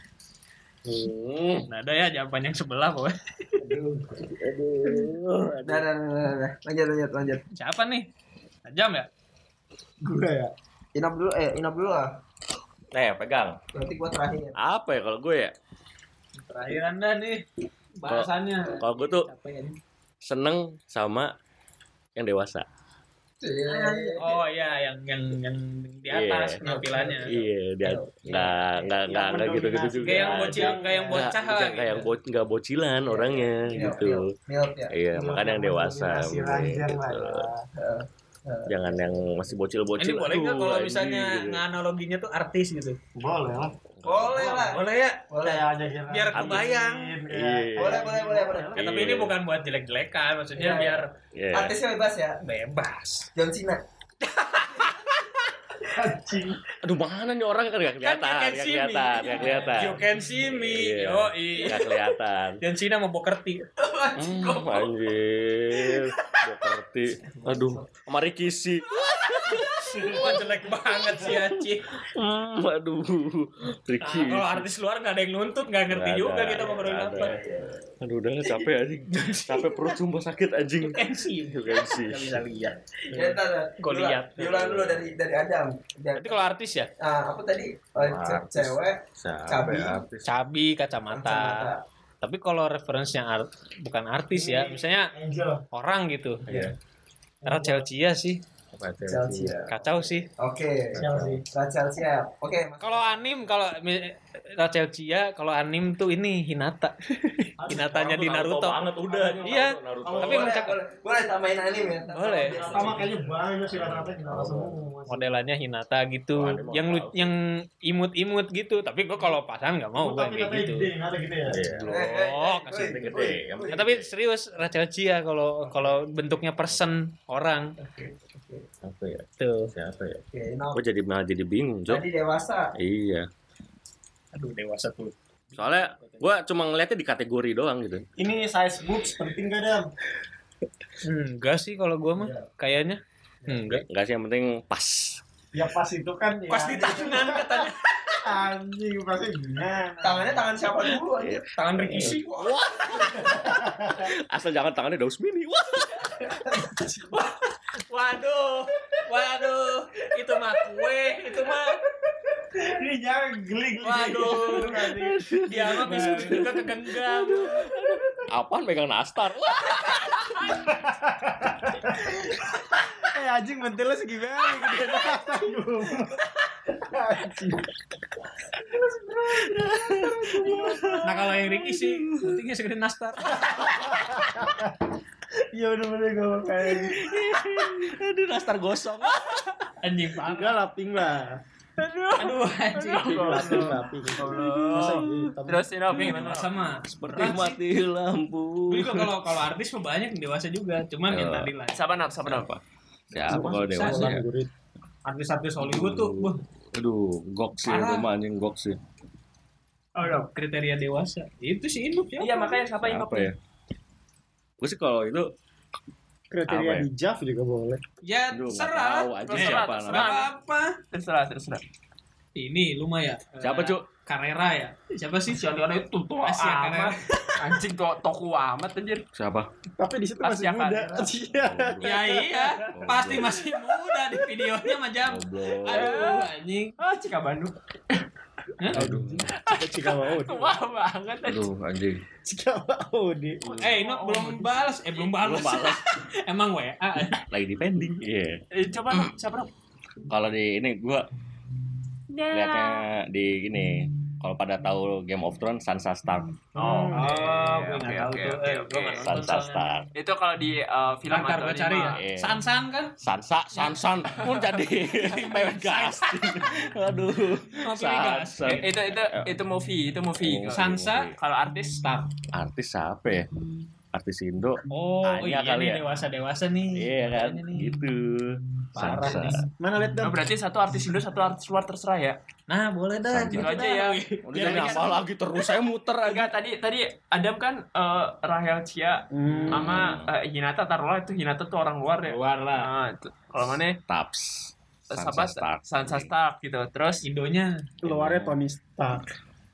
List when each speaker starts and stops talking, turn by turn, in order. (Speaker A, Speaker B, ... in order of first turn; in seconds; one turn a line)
Speaker A: 0.8-1.7
Speaker B: 1.7-3.5
Speaker C: 3.6-4.2
Speaker A: 4.2-5.9
Speaker D: 5.6-7.4
Speaker B: 7.5-8.1
Speaker B: 8.7-9.1
Speaker C: 10.1-10.5
Speaker D: 10.9-12.1
Speaker A: 12.9-13.6
Speaker D: 13.7-14.6
Speaker A: 14.6-15.5
Speaker B: 16.4-17.4
Speaker B: 18.0-19.8
Speaker A: 18.1-19.3
Speaker A: 20.2-21.3
Speaker A: 22.1-22.6
Speaker D: 23.4-24.3
Speaker B: 23.7-27.3
Speaker A: 26.1-26.6
Speaker D: 26.6-28.9
Speaker A: 27.2-34.3
Speaker C: 29.0-31.3
Speaker B: 30.0-32.1
Speaker D: 33.0-34.9
Speaker C: 33.7-34.0
Speaker A: 34.9-37.5
Speaker C: 35.1-37.7
Speaker D: 37.8-38.8
Speaker A: 38.7-41.6
Speaker B: 40.0-43.0
Speaker C: 43.1-43.8
Speaker A: 43.9-44.7
Speaker D: 44.0-45.6
Speaker B: 44.4-45.3
Speaker C: 45.4-48.8
Speaker B: 46.1-47.1
Speaker A: 46.3-46.7
Speaker A: 47.3-48.1
Speaker D: 47.8-48.8
Speaker B: 48.7-51.1
Speaker A: 48.7-49.3
Speaker D: 50.6-52.4
Speaker A: 51.3-51.8
Speaker B: 52.4-53.3
Speaker D: 53.3-53.8
Speaker B: 54.2-55.1
Speaker C: 55.9-56.6
Speaker A: 56.8-62.6
Speaker B: 58.0-61.9
Speaker D: 59.4-59.7
Speaker D: 61.6-61.9
Speaker B: 62.6-63.6
Speaker D: 63.8-64.9
Speaker A: 64.2-70.4
Speaker D: 65.7-66.4
Speaker D: 67.3-67.8
Speaker D: 69.0-70.0
Speaker B: 69.9-71.9
Speaker A: 71.1-71.5
Speaker A: 72.0-74.7
Speaker B: 74.0-77.4
Speaker A: 75.9-82.4
Speaker D: 79.1-79.9
Speaker B: 80.9-82.0
Speaker D: 82.1-86.4
Speaker B: 83.8-84.7
Speaker A: 84.4-85.1
Speaker B: 86.2-86.9
Speaker D: 87.0-90.0
Speaker A: 88.0-90.3
Speaker B: 90.2-91.7
Speaker D: 91.1-91.8
Speaker B: 92.2-95.1
Speaker C: 94.3-95.6
Speaker B: 95.7-96.4
Speaker A: 96.5-96.7
Speaker B: 97.4-98.4
Speaker C: 97.4-97.8
Speaker A: 98.7-100.1
Speaker D: 99.0-99.7
Speaker B: 99.7-100.3
Speaker D: 100.4-103.0
Speaker A: 100.9-101.4
Speaker C: 100.9-101.4
Speaker B: 102.8-106.9
Speaker C: 107.6-108.1
Speaker B: 107.6-108.8
Speaker A: 107.8-110.5
Speaker B: 109.4-110.8
Speaker D: 110.0-113.2
Speaker B: 112.1-112.6
Speaker C: 112.3-115.3
Speaker A: 112.7-113.1
Speaker A: 113.7-114.8
Speaker B: 115.1-120.9
Speaker A: 116.3-117.3
Speaker C: 120.0-121.8
Speaker A: 121.5-124.1
Speaker D: 121.8-123.4
Speaker B: 121.9-127.7
Speaker D: 128.0-128.6
Speaker A: 128.8-130.2
Speaker B: 129.4-129.7
Speaker D: 130.3-130.7
Speaker A: 130.7-132.1
Speaker D: 131.9-132.7
Speaker A: 132.8-133.3
Speaker B: 134.3-136.2
Speaker A: 135.6-138.1
Speaker C: 138.2-139.9
Speaker B: 141.0-143.8
Speaker A: 143.7-145.2
Speaker C: 145.5-147.7
Speaker B: 146.5-148.2
Speaker C: 148.2-150.5
Speaker D: 150.0-152.6
Speaker A: 151.2-156.3
Speaker B: 151.6-152.4
Speaker C: 153.0-154.1
Speaker C: 156.2-157.2
Speaker B: 157.9-161.8
Speaker C: 162.4-166.7
Speaker D: 163.8-164.9
Speaker A: 164.3-170.6
Speaker B: 165.4-167.6
Speaker C: 167.5-167.9
Speaker C: 170.7-172.4
Speaker C: 173.0-177.7
Speaker C: 178.7-181.1
Speaker A: 179.2-182.4
Speaker B: 181.0-183.6
Speaker A: 183.4-184.0
Speaker C: 183.4-187.2
Speaker A: 186.7-189.4
Speaker B: 189.8-190.6
Speaker C: 190.2-191.4
Speaker D: 191.8-196.5
Speaker B: 192.2-193.8
Speaker A: 192.9-193.6
Speaker C: 193.0-195.7
Speaker A: 194.2-195.3
Speaker B: 195.9-197.6
Speaker A: 196.9-199.2
Speaker B: 198.7-201.8
Speaker A: 201.1-201.5
Speaker D: 201.7-202.5
Speaker A: 202.2-204.2
Speaker C: 203.3-204.5
Speaker B: 203.3-204.2
Speaker B: 205.0-206.4
Speaker A: 205.6-208.8
Speaker B: 207.7-208.1
Speaker B: 210.0-212.5
Speaker D: 212.2-213.3
Speaker A: 212.8-213.3
Speaker A: 214.6-215.3
Speaker C: 216.3-217.8
Speaker A: 216.5-216.8
Speaker B: 218.0-220.8
Speaker A: 218.3-220.1
Speaker D: 219.2-220.3
Speaker D: 220.9-221.6
Speaker B: 222.4-225.4
Speaker A: 223.4-223.8
Speaker D: 225.3-229.0
Speaker B: 226.2-227.3
Speaker A: 229.1-229.5
Speaker C: 229.8-233.1
Speaker D: 230.2-231.1
Speaker A: 231.3-232.0
Speaker B: 231.8-236.7
Speaker A: 232.7-233.4
Speaker A: 235.0-236.1
Speaker D: 235.7-238.0
Speaker A: 238.7-239.3
Speaker C: 238.7-240.6
Speaker D: 239.3-241.5
Speaker A: 241.2-242.0
Speaker C: 242.2-243.6
Speaker D: 243.5-244.5
Speaker B: 243.6-247.2
Speaker A: 245.1-245.8
Speaker A: 247.3-248.4
Speaker D: 248.5-249.5
Speaker A: 250.1-251.1
Speaker B: 252.2-252.7
Speaker A: 252.3-257.5
Speaker D: 256.8-258.8
Speaker B: 256.9-259.6
Speaker A: 258.7-259.9
Speaker D: 259.9-262.0
Speaker B: 261.1-262.9
Speaker A: 262.0-262.4
Speaker A: 263.0-269.3
Speaker D: 264.2-264.5
Speaker B: 264.7-266.4
Speaker B: 267.6-268.7
Speaker D: 268.6-270.6
Speaker A: 270.2-271.1
Speaker B: 270.5-271.1
Speaker D: 271.2-272.1
Speaker A: 272.3-273.3
Speaker A: 273.9-275.8
Speaker B: 274.7-277.8
Speaker A: 276.7-279.4
Speaker B: 278.7-279.4
Speaker C: 279.6-280.2
Speaker D: 280.0-282.2
Speaker B: 282.5-285.0
Speaker A: 283.1-286.3
Speaker D: 283.3-293.8
Speaker C: 289.1-289.7
Speaker A: 289.5-290.1
Speaker B: 292.1-292.7
Speaker A: 293.9-296.1
Speaker D: 294.9-297.1
Speaker B: 297.0-297.6
Speaker C: 297.8-299.0
Speaker A: 297.8-298.3